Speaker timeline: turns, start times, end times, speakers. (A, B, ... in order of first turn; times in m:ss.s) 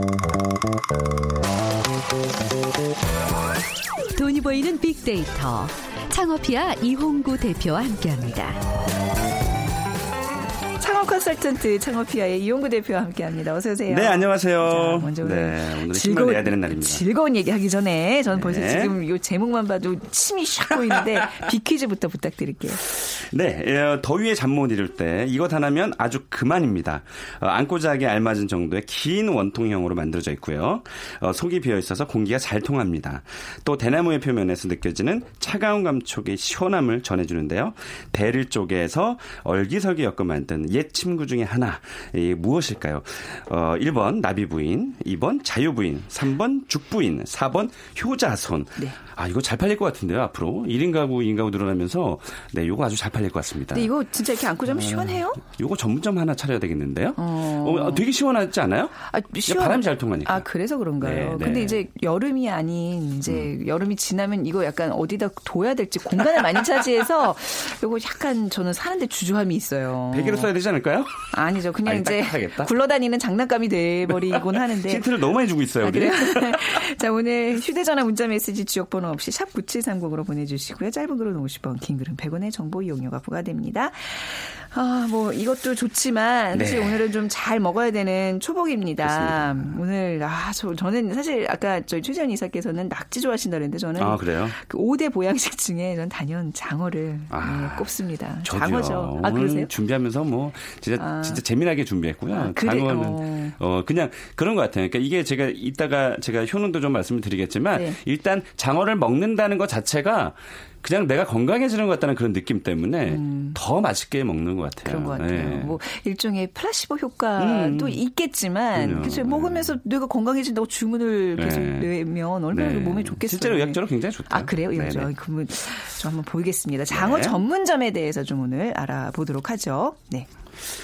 0:04.2-0:08.6 A
0:10.8-0:22.8 B
0:13.9-0:17.0 C
0:18.3-0:19.0 C
0:22.9-0:53.9 C
0:53.7-0:55.4 B
0:54.7-1:00.5 C
0:57.2-0:58.0 B
0:59.0-1:10.5 B
1:01.0-1:01.8 C
1:10.1-1:11.3 C
1:11.3-1:15.0 B
1:11.8-1:12.7 C
1:14.3-1:16.8 C
1:15.8-1:39.7 B
1:26.5-1:27.0 C
1:29.0-1:29.8 C
1:34.0-1:34.6 C
1:37.3-1:55.8 C
1:41.0-1:41.4 B
1:42.3-1:43.6 B
1:53.1-1:53.6 B
1:54.9-2:10.3 B
1:57.4-1:58.0 C
1:58.8-1:59.8 C
2:01.4-2:01.9 C
2:02.5-2:05.1 C
2:06.9-2:07.4 C